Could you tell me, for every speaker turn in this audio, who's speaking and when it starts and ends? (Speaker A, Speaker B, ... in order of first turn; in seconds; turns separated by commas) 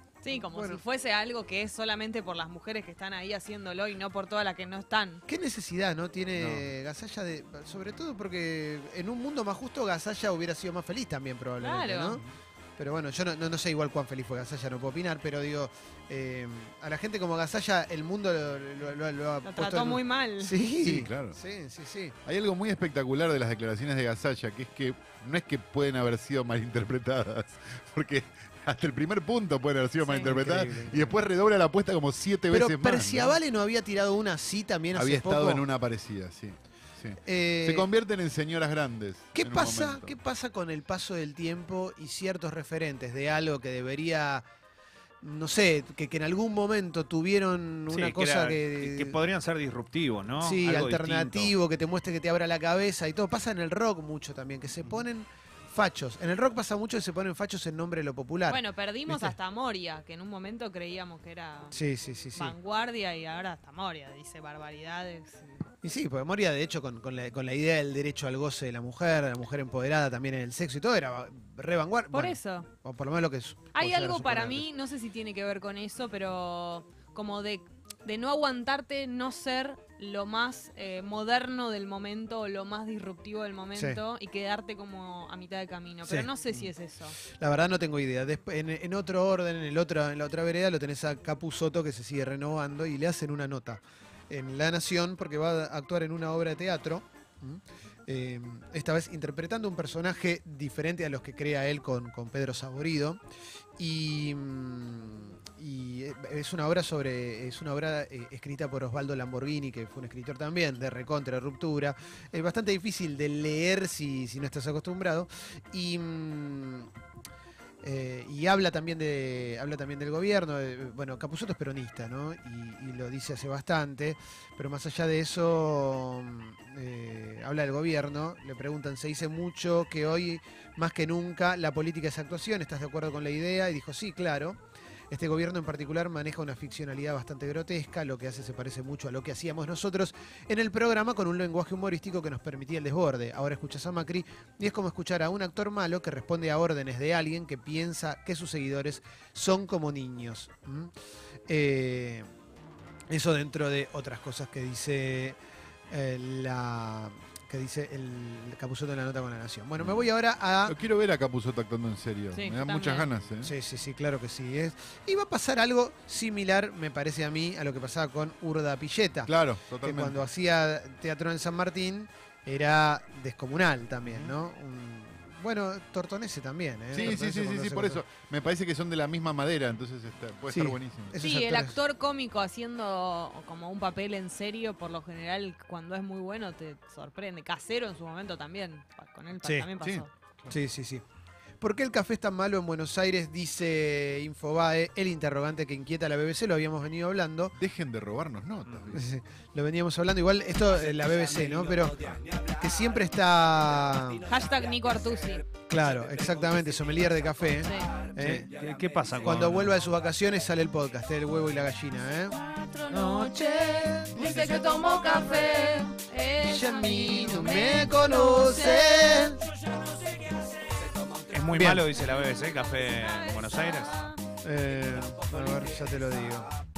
Speaker A: 0.2-5.2, Speaker B: 0.3-0.8, Speaker B: 5.3-12.2, Speaker C: 6.4-6.7, Speaker A: 11.6-12.2, Speaker B: 12.8-22.1, Speaker A: 19.4-20.6, Speaker C: 20.8-21.4, Speaker C: 22.2-33.4, Speaker A: 30.0-30.3, Speaker B: 30.2-31.2, Speaker B: 32.5-35.6, Speaker C: 34.9-40.1, Speaker B: 37.2-37.9, Speaker B: 39.3-44.4, Speaker B: 45.2-49.1, Speaker D: 47.9-51.5, Speaker B: 50.4-59.4, Speaker A: 58.5-61.7, Speaker B: 61.7-62.5, Speaker A: 62.3-65.7, Speaker B: 65.8-74.7, Speaker A: 72.1-72.7, Speaker A: 73.7-87.2, Speaker B: 83.7-84.0, Speaker B: 86.0-86.7, Speaker B: 87.2-103.2, Speaker B: 103.8-116.9, Speaker B: 117.8-134.6, Speaker B: 135.1-150.9, Speaker B: 151.5-152.3, Speaker B: 153.1-155.4, Speaker B: 155.9-160.8, Speaker C: 159.8-160.1, Speaker C: 160.6-163.5, Speaker A: 162.3-163.1, Speaker B: 163.4-178.0, Speaker C: 169.2-170.2, Speaker C: 174.1-174.3, Speaker C: 176.9-181.2, Speaker B: 180.5-181.8, Speaker A: 181.2-190.1, Speaker B: 189.4-189.7, Speaker C: 189.8-190.5, Speaker B: 190.5-191.0, Speaker B: 191.6-197.5, Speaker C: 197.6-199.1, Speaker D: 198.6-198.9, Speaker B: 198.9-204.2, Speaker A: 204.2-205.4, Speaker B: 205.7-208.5, Speaker A: 207.6-207.9, Speaker D: 208.2-209.8, Speaker B: 209.2-212.4, Speaker A: 212.4-219.3, Speaker B: 212.9-214.3, Speaker D: 212.9-213.2, Speaker B: 216.4-219.4, Speaker D: 221.3-223.9, Speaker B: 221.5-221.8, Speaker A: 222.7-224.2, Speaker B: 224.4-226.5